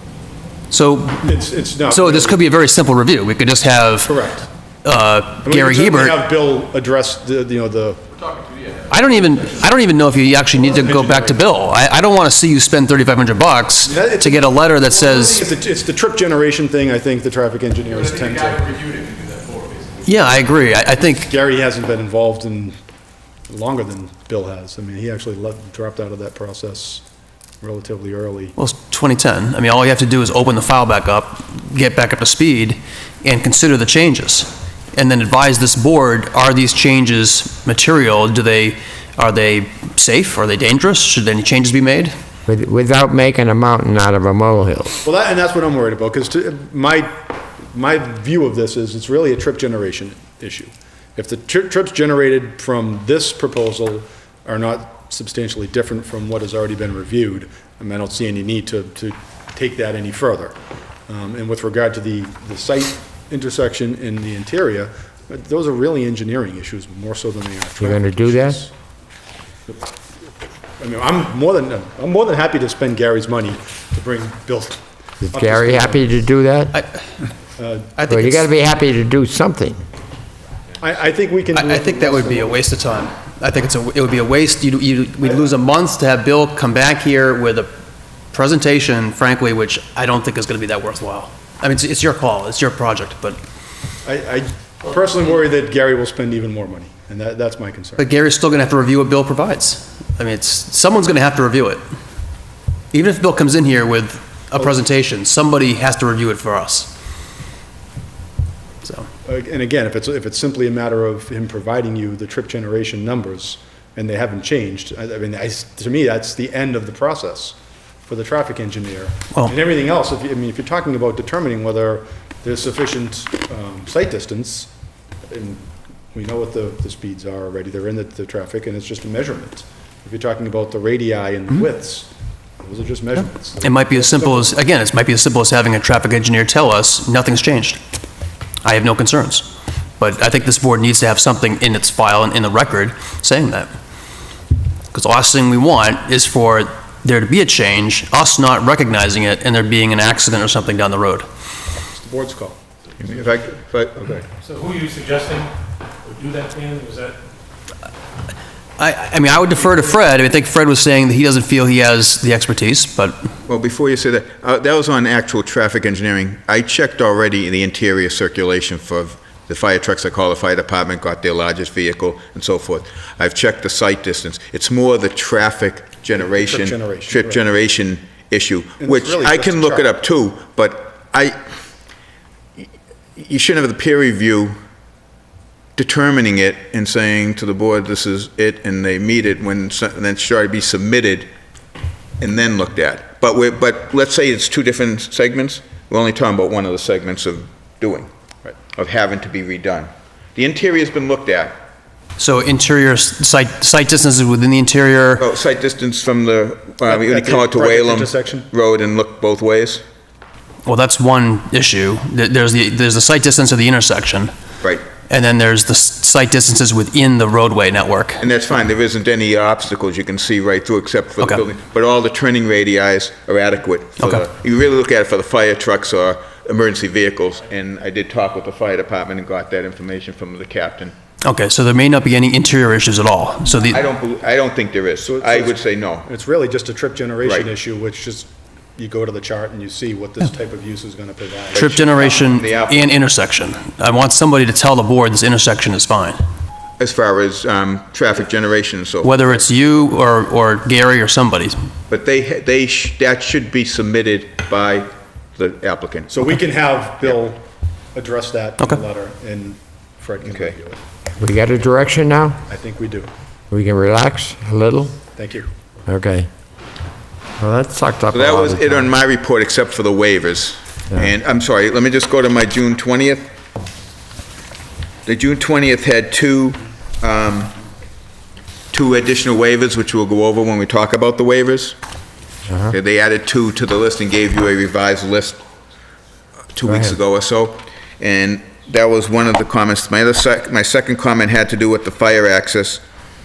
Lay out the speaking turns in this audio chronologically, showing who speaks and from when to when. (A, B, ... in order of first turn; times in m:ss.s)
0:00.7-0:04.3 A
0:01.2-0:02.4 B
0:04.0-0:04.4 B
0:04.8-0:06.2 A
0:05.4-0:08.0 B
0:08.2-0:08.9 C
0:08.9-0:15.5 A
0:10.7-0:11.4 B
0:13.8-0:18.7 B
0:17.9-0:20.0 C
0:20.0-0:21.3 A
0:21.2-0:22.7 B
0:23.5-0:27.0 B
0:27.6-0:28.5 B
0:28.6-0:42.1 A
0:42.5-0:45.0 D
0:45.0-1:00.5 B
1:01.1-1:08.7 B
1:07.8-1:08.6 D
1:10.8-1:16.1 B
1:15.2-1:16.7 D
1:16.7-1:17.0 A
1:17.6-1:18.0 B
1:18.0-1:18.5 A
1:18.1-1:19.8 D
1:20.8-1:22.6 B
1:21.5-1:27.7 A
1:28.3-1:33.4 A
1:34.0-1:38.1 B
1:38.0-1:41.8 A
1:42.9-1:46.9 A
1:48.8-1:49.1 A
1:49.2-1:57.6 B
1:58.1-2:04.7 B
2:05.3-2:14.6 B
2:13.6-2:17.8 A
2:18.6-2:23.7 A
2:24.9-2:31.2 A
2:31.9-2:32.6 B
2:33.0-2:34.2 E
2:34.4-2:35.5 C
2:36.0-2:37.2 C
2:38.8-2:43.3 A
2:43.4-3:01.4 E
2:56.2-2:57.4 B
2:58.8-2:59.9 B
3:02.6-3:04.6 E
3:05.8-3:11.3 E
3:12.2-3:18.1 E
3:18.7-3:21.6 E
3:22.2-3:25.2 A
3:25.2-3:29.8 E
3:26.8-3:28.5 B
3:30.6-3:34.3 A
3:35.1-3:38.2 A
3:38.2-3:50.9 E
3:41.2-3:41.4 A
3:44.0-3:44.2 A
3:51.2-3:53.8 A
3:53.6-3:56.1 E
3:55.0-4:01.7 B
3:57.2-3:57.5 E
4:01.5-4:03.0 E
4:01.5-4:06.2 A
4:06.8-4:09.4 E
4:09.0-4:11.6 A
4:11.9-4:16.1 E
4:16.1-4:17.4 B
4:17.9-4:20.8 B
4:20.2-4:20.6 E
4:21.2-4:22.4 D
4:22.5-4:23.1 B
4:23.5-4:25.0 D
4:25.1-4:25.5 B
4:25.8-4:26.3 D
4:27.4-4:28.9 D
4:28.1-4:33.3 E
4:35.0-4:37.5 E
4:38.7-4:41.8 E
4:42.5-4:42.7 D
4:42.7-4:45.4 E
4:46.5-4:52.8 E
4:46.7-4:46.9 D